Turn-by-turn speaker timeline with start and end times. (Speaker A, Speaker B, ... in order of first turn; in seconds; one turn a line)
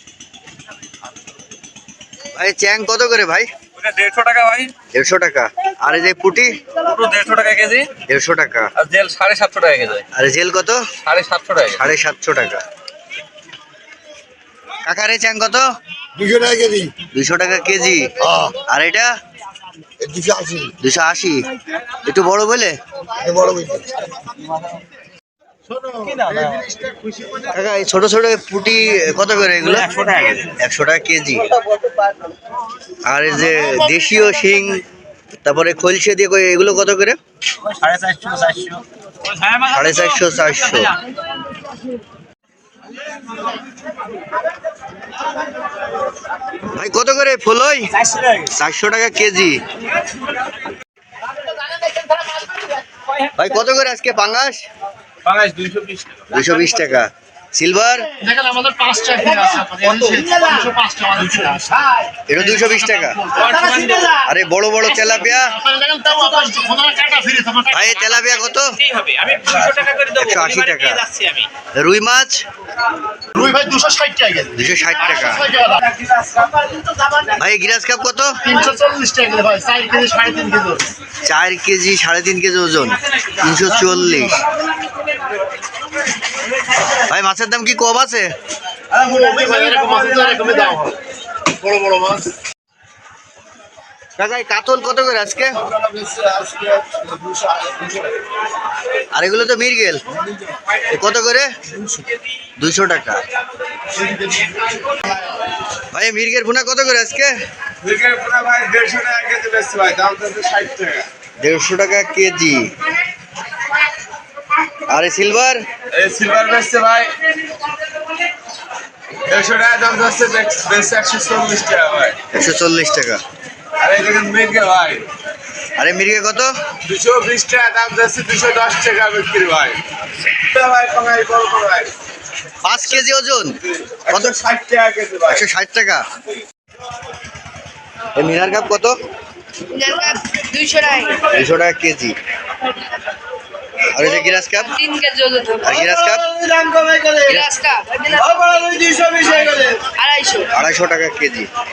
Speaker A: 2.4-3.5
Speaker B: 3.8-4.7
Speaker A: 4.9-6.6
Speaker B: 6.8-7.9
Speaker A: 8.0-8.7
Speaker B: 8.8-10.1
Speaker A: 10.1-11.0
Speaker B: 11.0-11.9
Speaker A: 11.7-12.6
Speaker A: 14.8-15.6
Speaker C: 16.2-16.9
Speaker A: 17.1-19.1
Speaker C: 20.0-20.7
Speaker A: 20.6-21.4
Speaker A: 22.1-22.8
Speaker C: 23.3-23.8
Speaker B: 26.0-26.7
Speaker A: 27.5-31.5
Speaker B: 29.8-30.6
Speaker A: 33.1-34.7
Speaker C: 33.4-34.6
Speaker A: 35.5-37.2
Speaker B: 37.7-40.9
Speaker A: 39.7-40.9
Speaker C: 39.8-40.7
Speaker A: 46.8-47.9
Speaker A: 48.5-49.5
Speaker A: 53.4-54.6
Speaker B: 55.2-56.3
Speaker A: 56.3-57.0
Speaker A: 57.5-58.0
Speaker D: 58.2-61.6
Speaker A: 62.3-63.2
Speaker B: 63.5-64.2
Speaker A: 64.2-65.5
Speaker C: 65.0-65.4
Speaker D: 65.6-67.8
Speaker A: 67.7-68.6
Speaker B: 68.0-71.5
Speaker A: 70.2-71.0
Speaker A: 71.8-72.4
Speaker D: 73.4-74.6
Speaker A: 74.5-75.5
Speaker C: 74.8-75.3
Speaker D: 75.6-75.9
Speaker A: 77.4-78.4
Speaker D: 78.6-80.9
Speaker A: 81.2-84.4
Speaker C: 83.8-84.2
Speaker A: 87.1-88.3
Speaker D: 89.1-91.0
Speaker D: 91.6-92.3
Speaker A: 94.2-95.6
Speaker E: 95.8-98.0
Speaker A: 99.1-100.0
Speaker A: 100.9-101.5
Speaker A: 102.6-103.2
Speaker A: 105.9-107.3
Speaker E: 107.8-111.1
Speaker A: 111.4-112.7
Speaker A: 114.9-115.6
Speaker E: 115.9-117.2
Speaker E: 119.3-122.2
Speaker A: 122.3-123.2
Speaker E: 123.8-125.1
Speaker A: 125.8-126.5
Speaker E: 126.8-129.8
Speaker E: 130.4-131.9
Speaker A: 132.7-133.5
Speaker E: 133.9-135.5
Speaker A: 134.1-134.4
Speaker A: 135.3-136.0
Speaker A: 138.2-138.9
Speaker F: 139.7-141.3
Speaker A: 141.4-142.1
Speaker A: 143.9-144.7
Speaker F: 144.6-145.8
Speaker A: 145.7-146.3
Speaker E: 146.4-147.1
Speaker F: 147.2-148.4
Speaker E: 148.4-149.7
Speaker F: 149.4-150.5
Speaker A: 150.6-151.5